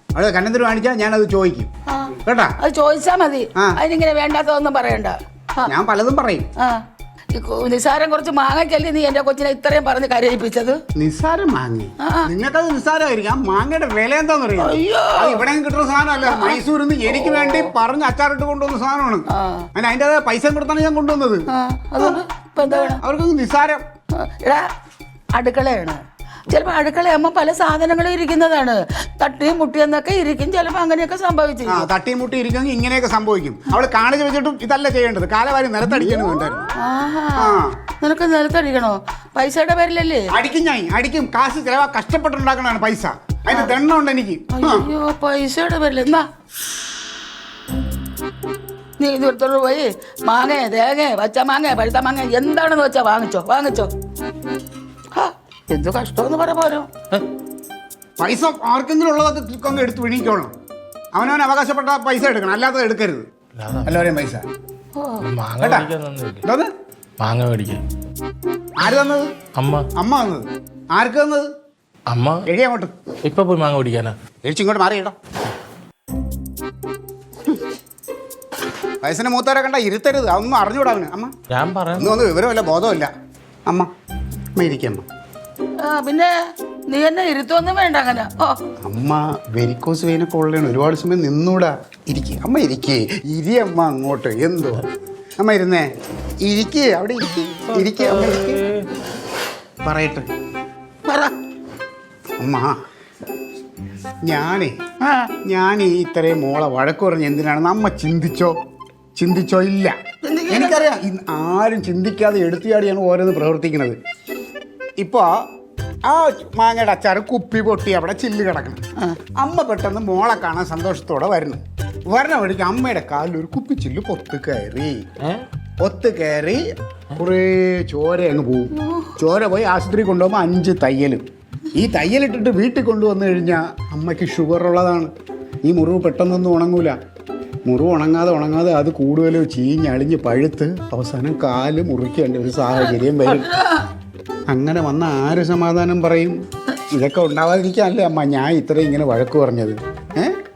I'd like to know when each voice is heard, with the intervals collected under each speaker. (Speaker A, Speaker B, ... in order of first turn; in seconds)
Speaker A: 0.1-1.7, 2.2-2.5, 5.7-6.5, 11.0-21.4, 22.7-23.8, 31.7-36.7, 37.4-37.7, 40.3-44.9, 58.2-60.5, 61.1-63.2, 63.9-64.5, 65.6-65.9, 66.4-66.7, 68.8-69.3, 70.0-71.5, 72.5-72.9, 74.5-75.2, 79.0-81.3, 82.0-83.1, 84.6-85.0, 88.8-94.9, 95.4-95.9, 96.4-98.6, 99.8-100.3, 102.4-102.7, 104.3-104.9, 105.5-108.5, 109.2-110.0, 110.5-114.0, 115.0-115.3, 116.1-118.8, 119.3-125.0, 125.8-126.6, 127.2-135.1, 135.7-137.0, 137.7-143.6, 144.5-146.4, 146.9-150.3
Speaker B: 1.9-5.7, 7.3-10.8, 14.6-15.4, 16.3-16.6, 17.1-17.7, 19.3-19.6, 21.5-23.0, 25.4-26.0, 26.5-31.9, 36.8-40.2, 44.5-46.2, 49.0-53.9, 55.1-56.9, 85.8-86.3, 86.9-88.5, 101.1-101.3, 110.2-110.9, 128.8-129.1
Speaker C: 63.6-64.1, 65.2-66.4, 67.2-67.8, 69.5-69.8, 72.1-72.4, 73.2-74.2, 81.5-82.2, 97.8-98.8